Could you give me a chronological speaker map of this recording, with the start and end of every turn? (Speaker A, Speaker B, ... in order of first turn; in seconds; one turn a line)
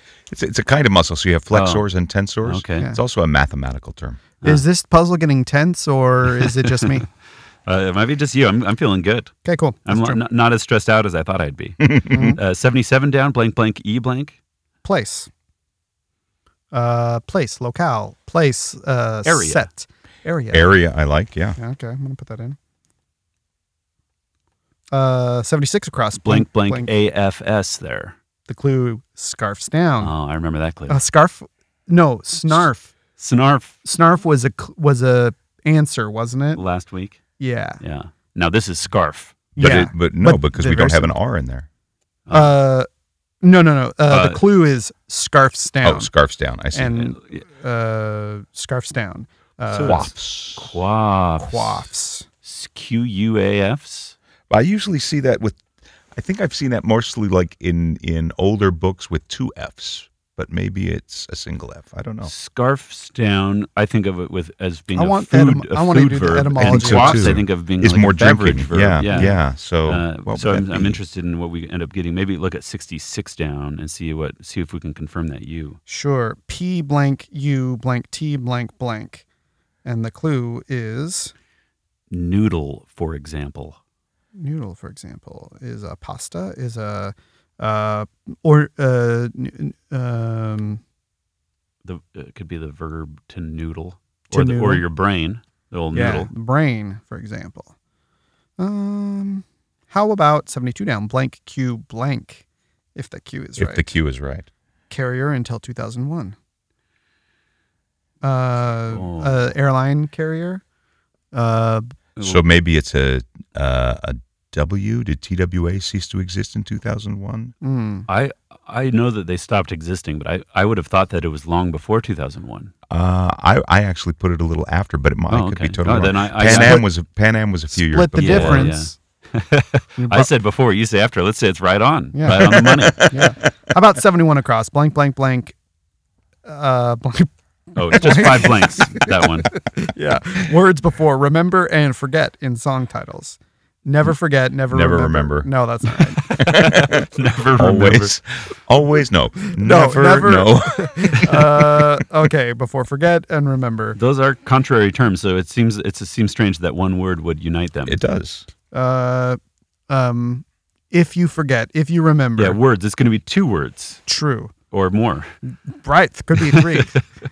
Speaker A: 0.3-4.2
Speaker B: 1.5-1.9
Speaker B: 2.4-2.9
Speaker C: 4.4-7.1
Speaker B: 6.3-7.1
Speaker B: 7.7-9.3
Speaker C: 9.4-10.2
Speaker B: 9.9-14.4
Speaker C: 12.1-12.4
Speaker C: 14.8-15.3
Speaker C: 16.7-20.7
Speaker B: 19.2-19.7
Speaker A: 20.5-21.6
Speaker C: 21.6-22.6
Speaker C: 24.9-26.9
Speaker B: 26.2-28.1
Speaker C: 28.5-30.1
Speaker B: 30.0-31.0
Speaker C: 30.9-32.9
Speaker B: 33.2-33.8
Speaker C: 33.8-36.6
Speaker B: 36.5-37.2
Speaker C: 37.4-37.8
Speaker B: 37.8-39.4
Speaker A: 39.6-41.7
Speaker C: 39.6-41.1
Speaker B: 42.3-42.6
Speaker C: 42.3-42.9
Speaker C: 43.4-46.1
Speaker B: 44.1-44.4
Speaker A: 45.8-47.0
Speaker C: 46.7-50.1
Speaker B: 47.1-47.4
Speaker B: 49.7-51.9
Speaker A: 49.8-50.8
Speaker C: 51.4-52.3
Speaker B: 52.4-54.1
Speaker A: 54.5-55.6
Speaker A: 56.1-62.3
Speaker B: 62.3-75.8
Speaker C: 65.0-67.4
Speaker A: 66.6-71.0
Speaker C: 69.0-69.4
Speaker C: 75.9-79.2
Speaker C: 79.8-81.3
Speaker B: 82.1-83.8
Speaker C: 84.4-90.8
Speaker B: 91.8-96.3
Speaker C: 94.3-94.8
Speaker C: 95.9-97.7
Speaker C: 98.6-102.4
Speaker C: 103.0-104.0
Speaker A: 103.6-104.5
Speaker C: 104.9-106.3
Speaker C: 108.2-110.6
Speaker B: 108.9-109.5
Speaker C: 111.3-111.9
Speaker B: 112.2-112.4
Speaker A: 112.2-117.5
Speaker C: 117.6-118.1
Speaker B: 118.1-122.7
Speaker A: 122.9-128.8
Speaker B: 125.3-126.8
Speaker C: 126.4-126.9
Speaker C: 127.7-129.0
Speaker B: 128.2-133.2
Speaker C: 130.0-130.3
Speaker C: 132.2-135.6
Speaker A: 132.3-133.3
Speaker C: 136.5-146.2
Speaker B: 137.8-139.5
Speaker A: 144.7-145.5
Speaker B: 146.2-148.1
Speaker A: 146.4-152.0
Speaker C: 149.5-154.0
Speaker B: 154.0-158.0
Speaker A: 157.9-158.5
Speaker C: 158.7-162.6
Speaker B: 162.4-164.0
Speaker C: 164.1-164.5
Speaker B: 164.7-165.3
Speaker C: 165.7-167.0
Speaker B: 166.4-166.8